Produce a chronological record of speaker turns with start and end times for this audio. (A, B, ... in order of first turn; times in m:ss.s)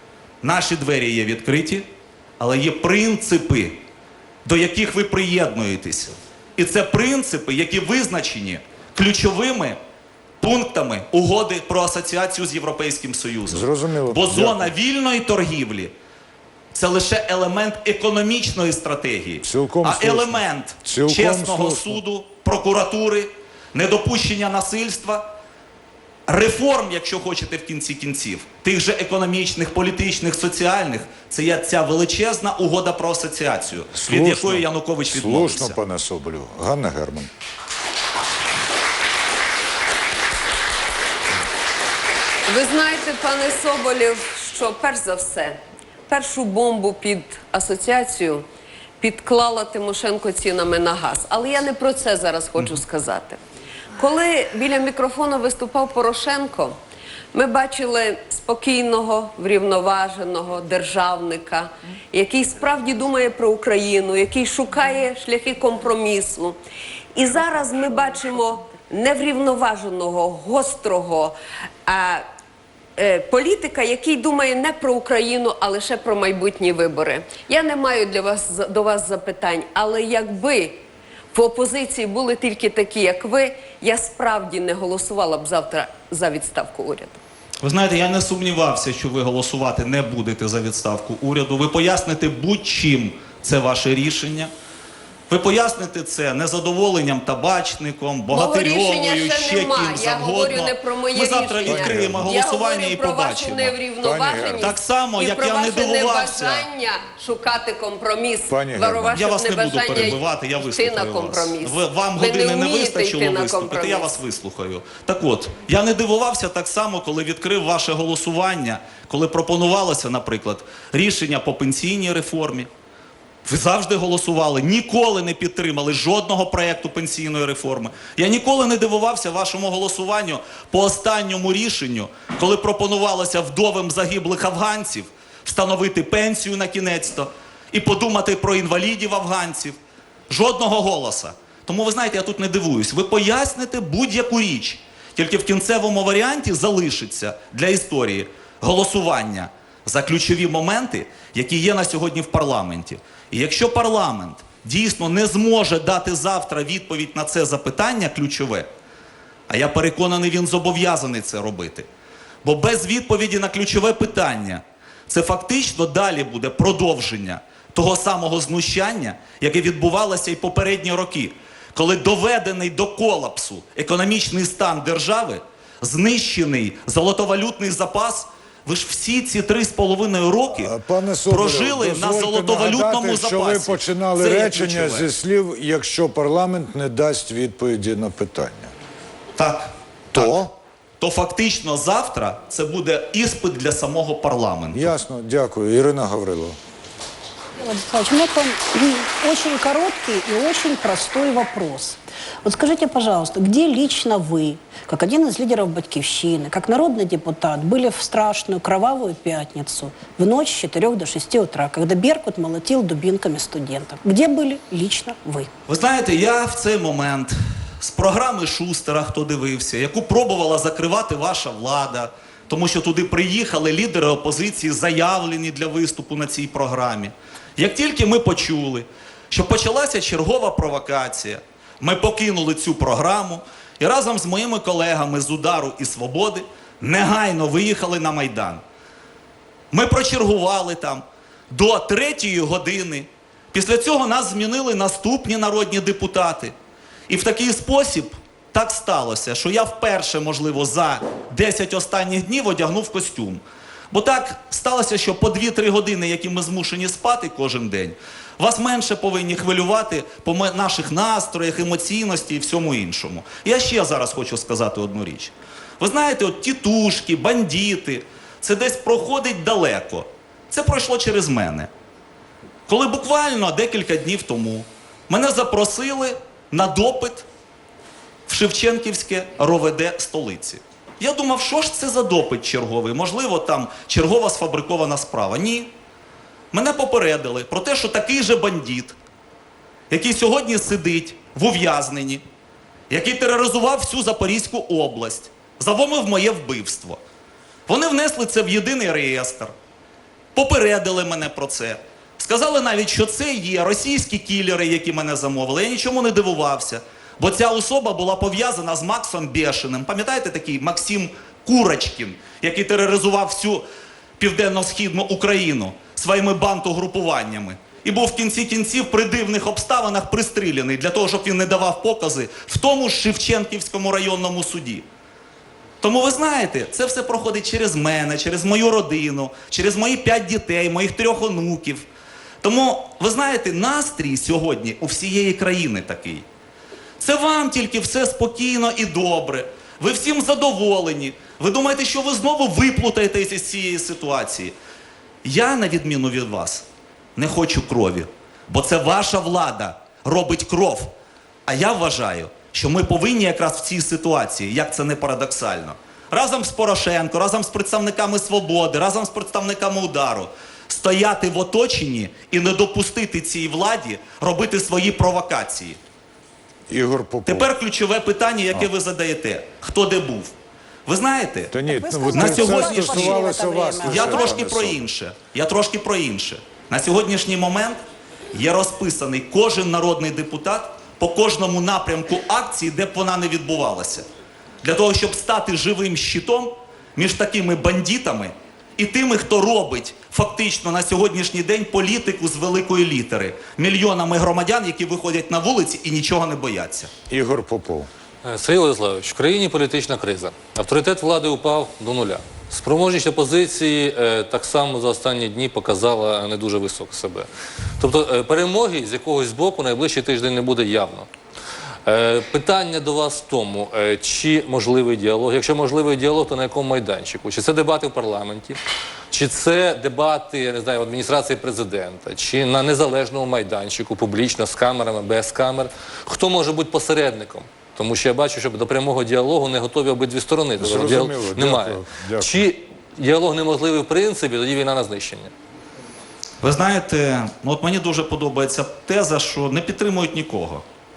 0:00.4-0:01.8 A
0:02.4-0:03.8 A
0:04.4-0:09.8 A
0:10.4-0:15.9 A
0:13.5-0:14.7 B
0:16.7-0:25.3 A
0:19.4-0:22.0 B
0:26.3-0:35.8 A
0:33.9-0:37.3 B
0:42.5-0:48.4 C
0:49.0-0:53.4 C
0:54.0-0:56.8 C
0:57.3-1:06.6 C
1:07.1-1:11.3 C
1:11.8-1:12.2 C
1:13.0-1:27.2 C
1:27.6-1:34.5 A
1:35.3-1:43.8 A
1:38.3-1:54.1 C
1:41.6-1:42.4 B
1:44.0-1:44.8 B
1:44.6-1:46.7 A
1:48.5-1:49.3 B
1:49.1-2:02.7 A
2:03.4-2:19.8 A
2:20.3-2:38.7 A
2:39.5-2:41.9 A
2:42.4-3:00.7 A
3:00.6-3:08.7 B
3:01.3-3:05.1 A
3:09.4-3:10.4 A
3:10.1-3:10.5 B
3:11.0-3:14.9 A
3:14.7-3:16.6 B
3:17.6-3:35.5 D
3:35.7-3:58.6 A
3:59.7-4:06.5 A
4:07.1-4:31.7 A
4:32.7-4:37.2 A
4:38.3-4:45.7 A
4:46.5-4:49.0 A
4:49.9-4:52.2 A
4:52.9-4:57.0 A
4:57.7-4:59.5 A
5:00.3-5:13.6 A
5:14.2-5:24.8 A
5:25.8-5:31.9 A
5:32.4-5:36.2 A
5:37.0-5:44.5 A
5:45.2-5:46.6 A
5:47.2-5:50.9 A
5:51.5-6:05.8 A
6:06.7-6:07.5 B
6:07.2-6:10.3 A
6:10.8-6:11.5 A
6:11.5-6:14.8 B
6:11.6-6:14.4 D
6:12.1-6:13.3 A
6:13.8-6:17.8 A
6:18.3-6:24.0 A
6:24.6-6:36.9 A
6:37.1-6:37.9 B
6:38.2-6:47.3 E
6:47.8-6:51.1 E
6:51.8-7:15.3 E
7:10.6-7:12.5 B
7:16.4-7:20.6 A